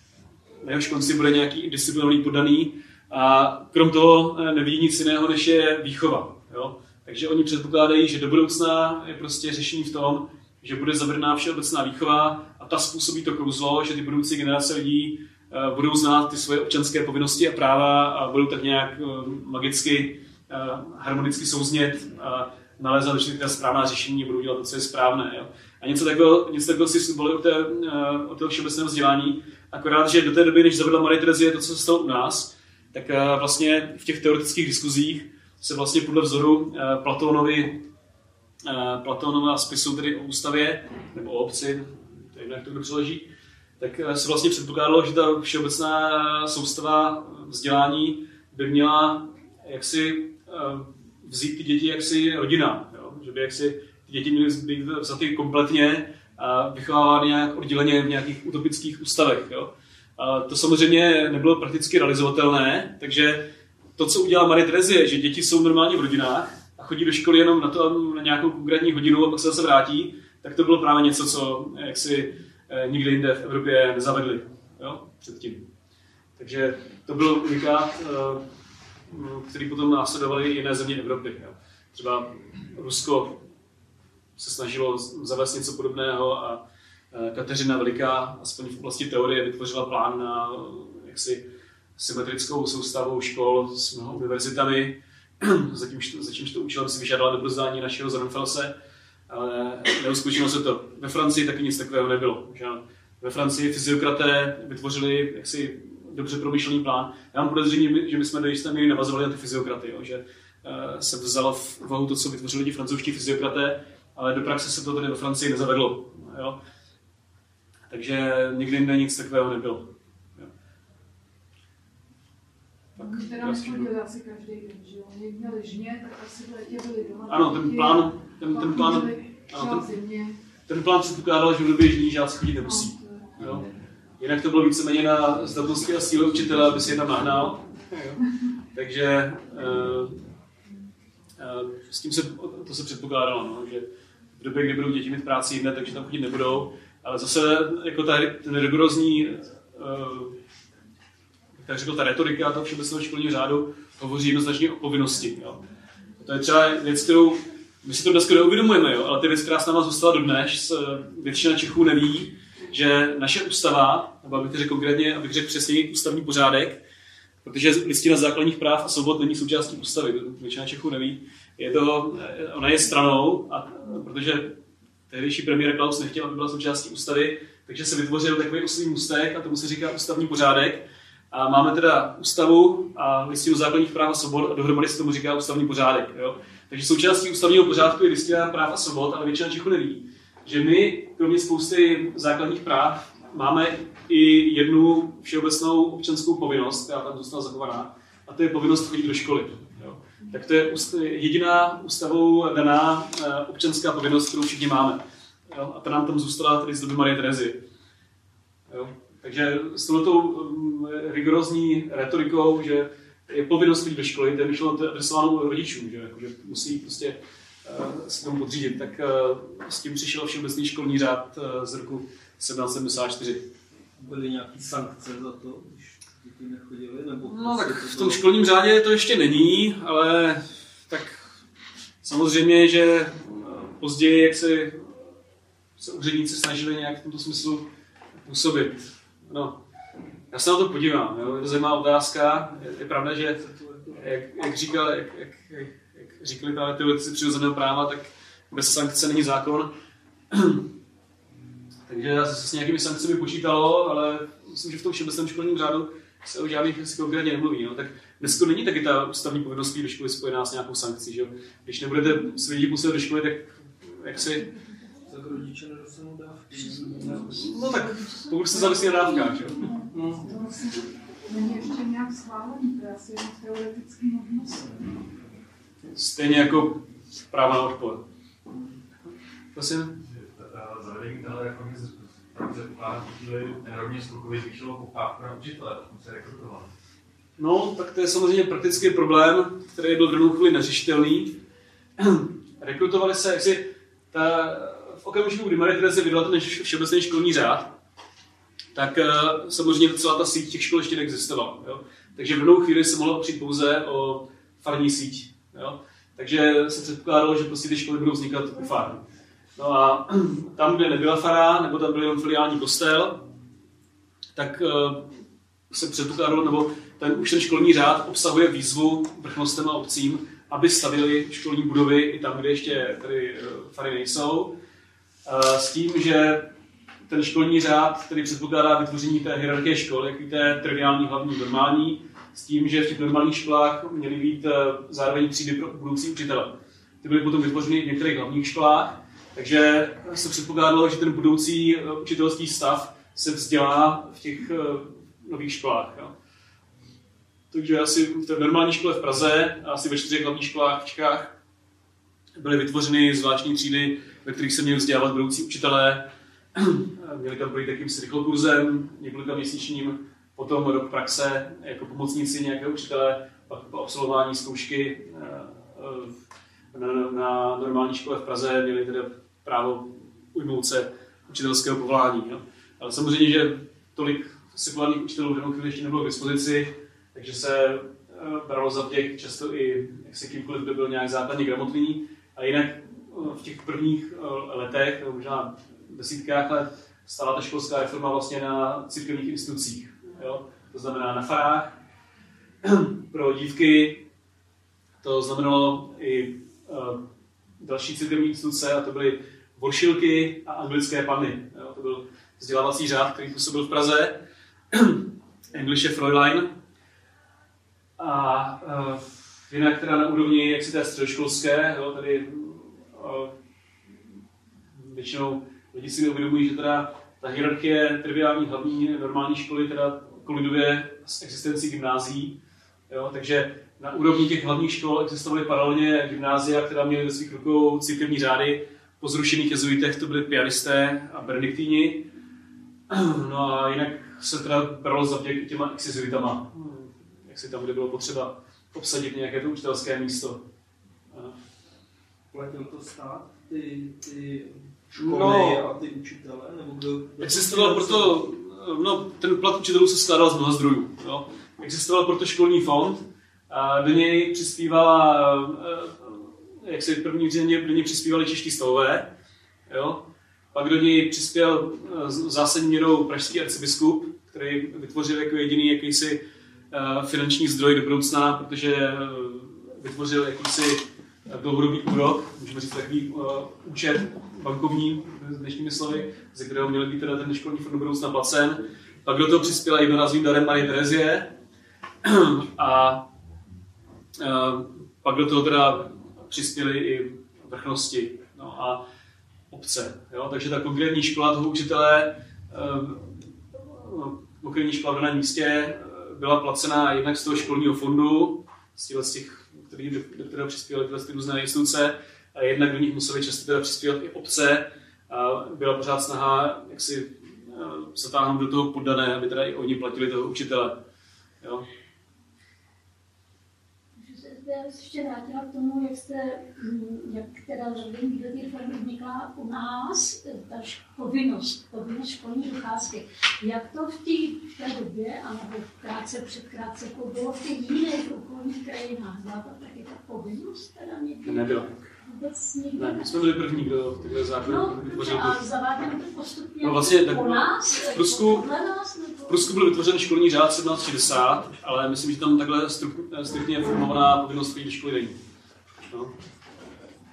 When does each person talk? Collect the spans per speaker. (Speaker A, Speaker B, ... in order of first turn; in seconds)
Speaker A: 0.6-37.8, 38.6-43.3, 43.8-75.7, 76.4-78.4, 79.1-83.4, 84.4-98.7, 99.3-116.6, 117.9-120.5, 123.0-123.9, 127.3-129.9, 130.7-133.7, 134.2-138.2, 138.7-140.2, 141.4-143.8, 144.4-150.4, 151.6-155.6, 156.2-166.8, 167.4-174.6, 175.1-207.6, 208.7-223.4, 227.3-231.3, 232.0-234.9, 235.8-239.6, 240.3-243.4, 243.9-249.7, 250.3-250.7, 251.9-264.5, 267.0-269.7, 275.9-278.0, 279.5-280.0, 287.4-291.4, 292.0-297.7, 298.7-309.0, 309.6-313.2, 314.4-315.1, 315.7-324.5, 325.2-326.5, 327.1-346.1, 347.5-351.3, 352.4-366.1, 366.7-391.8, 392.6-394.0, 395.0-397.0, 397.6-404.2, 404.7-406.6, 408.0-413.3, 414.8-422.4, 422.9-432.1, 432.9-440.4, 441.1-441.4, 444.9-445.6, 447.2-459.1, 459.7-481.3, 482.0-483.0, 484.2-488.8, 489.5-510.8, 531.2-531.7, 532.7-535.4, 536.6-538.5, 539.3-545.2, 545.9-546.1
Speaker B: 123.0-130.4, 132.7-133.3, 270.2-274.8
Speaker C: 224.0-228.2, 243.4-244.0, 265.1-267.6, 269.9-270.3, 442.3-448.2
Speaker D: 280.1-286.7
Speaker E: 514.0-533.1, 534.4-539.5